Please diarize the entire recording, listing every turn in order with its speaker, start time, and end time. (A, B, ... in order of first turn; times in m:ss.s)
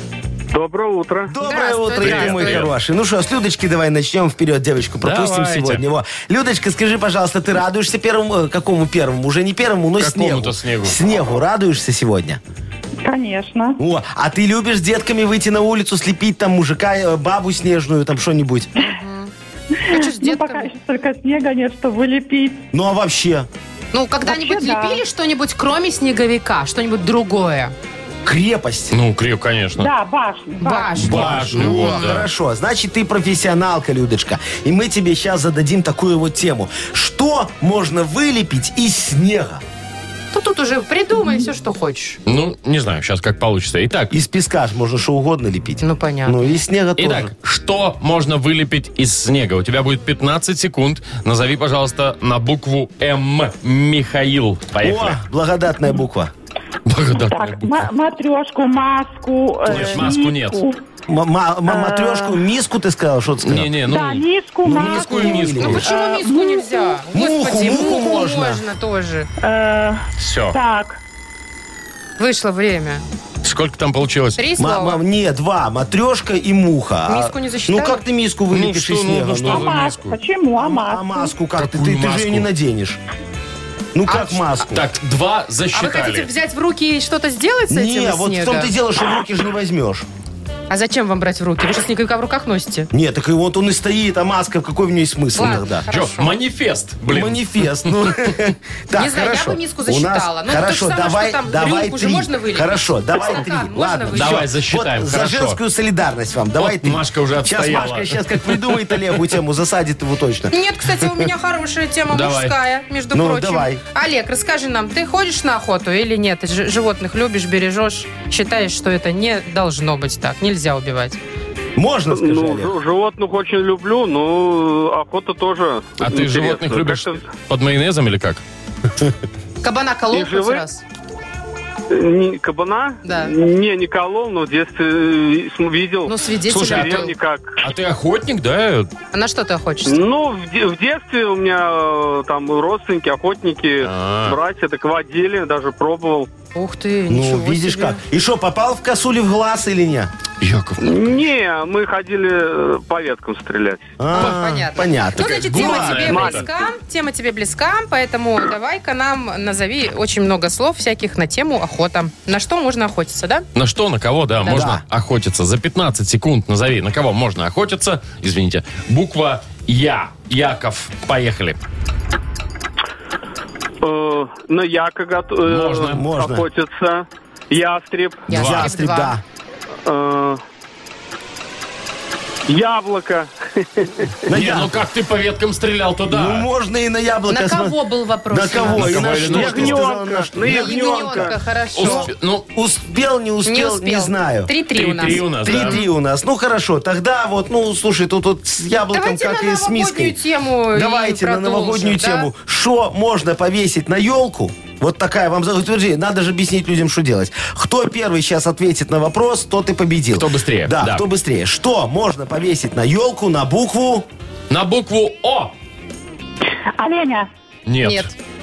0:00.5-0:01.3 A
0:01.3-0:12.4 B
0:01.4-0:02.6 C
0:02.0-0:02.7 D
0:05.0-0:05.8 D
0:10.0-0:11.0 D
0:13.0-0:13.8 E
0:13.8-0:18.7 B
0:18.8-0:19.3 C
0:19.8-0:22.7 E
0:19.9-0:20.7 C
0:22.7-0:23.5 B
0:23.9-0:27.7 C
0:24.2-0:25.0 E
0:28.2-0:29.0 B
0:28.9-0:29.9 D
0:29.8-0:31.0 E
0:30.6-0:32.2 C
0:31.0-0:32.3 D
0:31.0-0:39.6 B
0:40.3-0:42.2 C
0:42.3-0:44.1 D
0:44.1-0:47.3 B
0:45.8-0:46.5 C
0:47.0-0:55.2 D
0:54.8-0:56.3 B
0:56.9-0:57.9 D
0:57.1-1:00.8 E
0:59.7-1:00.6 D
0:59.7-1:00.1 B
1:01.1-1:03.8 B
1:01.7-1:02.4 E
1:03.4-1:05.9 D
1:03.8-1:07.1 E
1:04.6-1:05.9 B
1:05.6-1:09.3 C
1:07.1-1:08.6 B
1:09.4-1:11.0 E
1:10.2-1:10.6 D
1:12.2-1:13.0 C
1:13.4-1:14.4 D
1:14.4-1:15.0 C
1:14.6-1:19.8 B
1:17.1-1:18.0 C
1:18.5-1:20.2 D
1:19.4-1:21.3 E
1:20.6-1:23.0 B
1:21.6-1:22.5 D
1:24.0-1:24.8 B
1:24.1-1:24.6 C
1:24.7-1:26.3 D
1:25.7-1:28.7 C
1:27.7-1:30.1 B
1:30.7-1:32.9 C
1:32.9-1:35.8 B
1:35.4-1:36.4 C
1:35.9-1:38.1 D
1:37.1-1:51.3 B
1:39.0-1:44.4 C
1:44.1-1:45.6 D
1:46.6-1:49.2 D
1:50.5-2:01.2 C
1:52.1-1:52.6 D
1:53.1-1:53.8 B
2:01.8-2:02.7 B
2:02.1-2:07.2 A
2:06.0-2:08.4 D
2:09.6-2:10.8 C
2:10.1-2:10.6 A
2:11.9-2:17.6 A
2:13.0-2:13.3 C
2:16.0-2:17.1 C
2:16.5-2:17.1 D
2:17.6-2:18.9 D
2:19.1-2:20.0 C
2:19.9-2:26.3 A
2:23.8-2:24.4 D
2:26.6-2:28.0 C
2:27.1-2:30.1 B
2:30.4-2:31.1 D
2:30.8-2:33.9 A
2:34.0-2:36.1 B
2:34.1-2:43.5 C
2:35.2-2:36.5 D
2:36.0-2:36.5 A
2:43.6-2:51.6 D
2:44.4-2:44.7 C
2:44.5-2:44.8 B
2:53.8-2:58.3 A
2:55.4-2:56.1 D
2:55.9-2:56.5 B
2:58.3-2:59.2 C
2:58.3-2:58.7 D
2:58.3-2:59.2 B
2:59.8-3:00.4 A
3:02.5-3:04.1 A
3:04.3-3:04.8 B
3:04.3-3:06.5 D
3:06.1-3:07.8 B
3:07.3-3:12.1 C
3:08.3-3:14.5 B
3:08.7-3:09.9 D
3:09.2-3:11.3 A
3:11.8-3:12.5 D
3:13.4-3:15.9 C
3:14.7-3:15.8 D
3:15.4-3:20.2 B
3:18.9-3:22.3 C
3:20.7-3:34.1 B
3:30.2-3:31.0 D
3:34.5-3:35.5 D
3:36.8-3:37.3 E
3:37.7-3:38.1 D
3:37.8-3:38.1 C